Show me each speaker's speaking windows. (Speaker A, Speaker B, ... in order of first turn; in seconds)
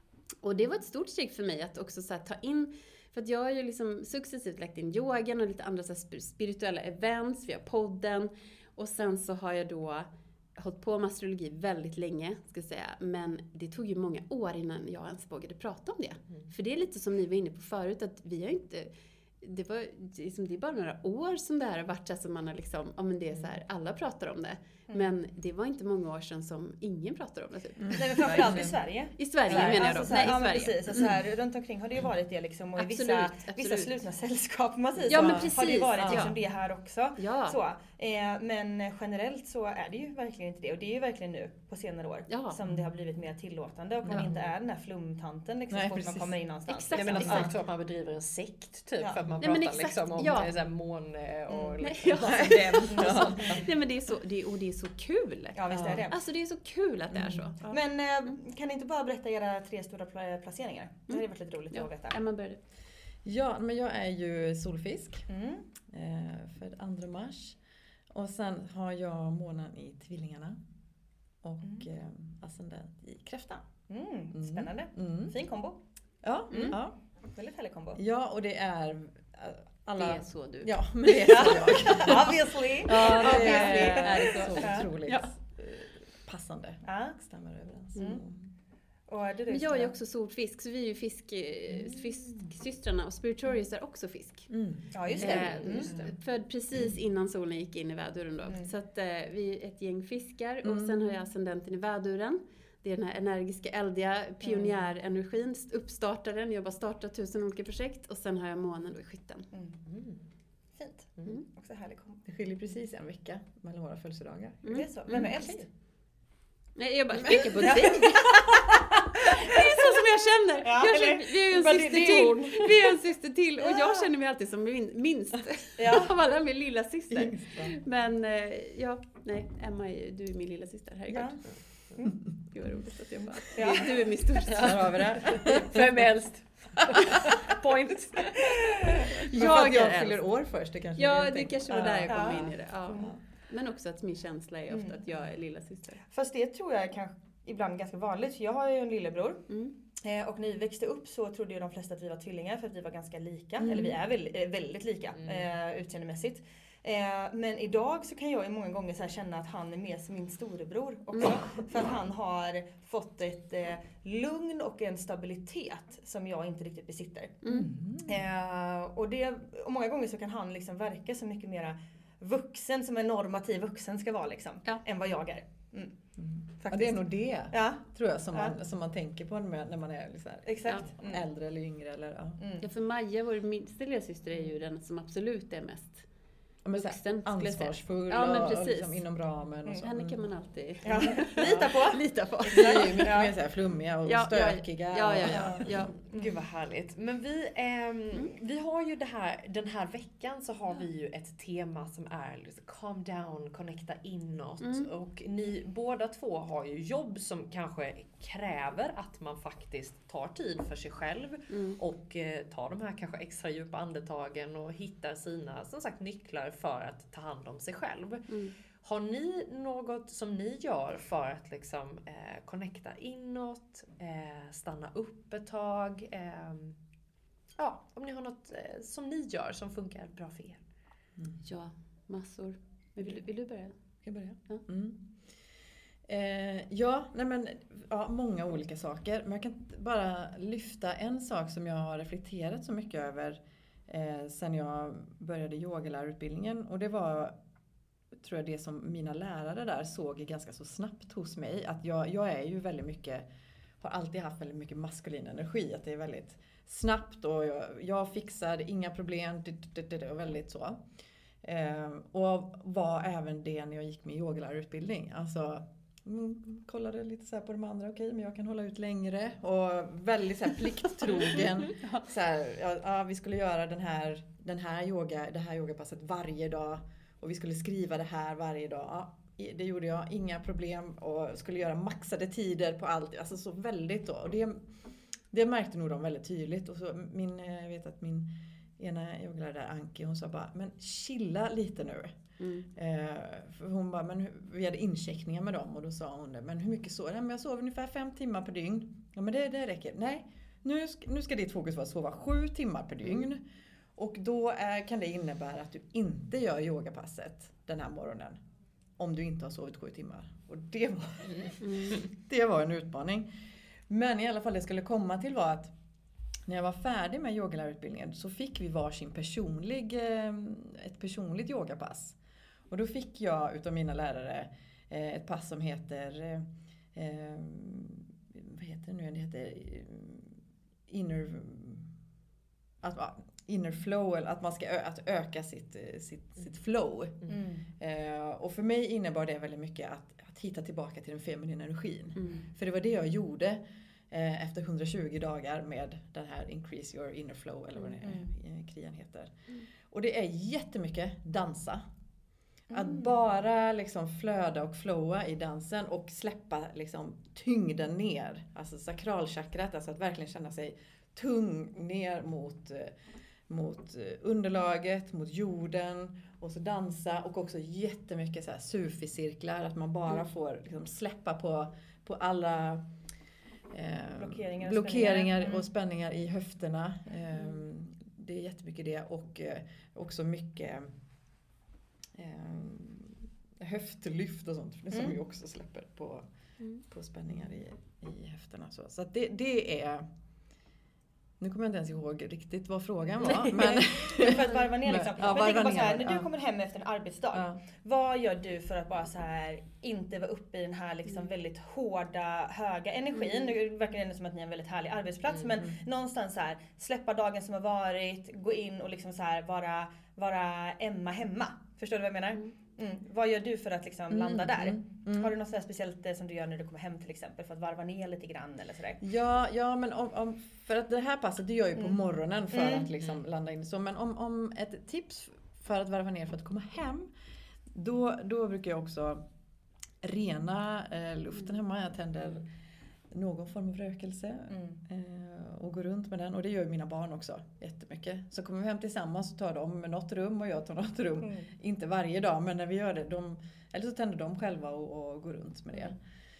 Speaker A: 0.4-30.8, 32.8-33.9, 35.0-36.3, 37.2-37.6, 42.3-42.6, 46.7-47.5, 49.4-50.5, 51.8-55.6, 56.1-57.8, 61.1-62.6, 80.0-82.2, 82.9-85.3, 89.5-94.5, 95.2-109.5, 114.6-115.2, 116.8-118.6, 119.2-131.3, 132.5-134.8, 139.3-140.2, 141.0-146.0, 182.6-186.1, 186.7-189.1, 189.7-193.1, 194.1-195.9, 204.6-204.9, 211.5-211.8, 218.3-218.6, 231.4-233.7, 271.3-272.1, 292.4-292.7, 311.6-312.0, 342.2-342.5, 352.7-353.1, 403.1-403.5
Speaker B: 27.8-28.8, 29.5-30.2, 35.1-36.3, 44.0-44.3, 45.7-46.4, 47.0-47.4, 52.2-53.6, 55.7-56.0, 57.1-57.5, 63.2-65.3, 65.9-67.6, 68.1-70.6, 71.4-73.6, 74.3-75.3, 76.2-77.0, 78.0-88.5, 94.5-95.3, 100.6-101.2, 112.2-115.3, 117.2-118.6, 127.1-127.8, 132.3-132.8, 134.6-136.0, 139.2-143.2, 153.6-153.9, 167.5-168.3, 176.2-182.4, 186.7-190.2, 191.4-191.9, 192.4-195.7, 231.2-231.4, 234.0-235.0, 236.1-247.4, 248.1-253.3, 253.8-260.9, 261.4-284.6, 285.3-292.2, 292.8-303.4, 304.0-308.4, 309.0-313.3, 313.9-315.7, 316.5-322.2, 322.7-331.9, 332.8-351.9, 352.7-362.9, 363.5-372.9, 373.7-380.9, 382.1-386.2, 386.8-390.1, 391.4-396.3, 397.3-397.6, 414.1-415.4, 419.0-427.1, 427.7-429.3, 430.0-432.5, 433.1-446.0
Speaker C: 27.9-47.5, 51.5-51.8, 52.9-53.6, 55.5-56.2, 57.7-62.2, 65.3-65.7, 73.9-75.8, 76.5-76.8, 77.3-78.0, 81.2-84.9, 86.8-87.2, 88.0-88.2, 89.1-89.9, 94.9-96.0, 104.4-104.8, 109.5-109.8, 110.8-112.2, 114.7-115.7, 117.3-118.8, 119.3-119.9, 120.6-122.7, 123.6-124.0, 125.8-126.1, 131.1-131.4, 133.2-134.0, 142.1-143.1, 144.7-145.0, 146.1-149.4, 150.0-167.4, 168.1-175.9, 176.6-178.6, 180.5-181.2, 182.4-182.7, 190.8-193.3, 196.1-196.4, 337.3-337.6, 348.0-348.3, 374.2-375.6, 393.2-419.0, 422.5-422.9, 434.5-434.8, 441.2-441.5
Speaker D: 46.9-53.6, 95.3-95.8, 109.9-110.2, 134.5-138.7, 155.2-155.5, 196.1-218.3, 218.8-226.8, 227.6-230.6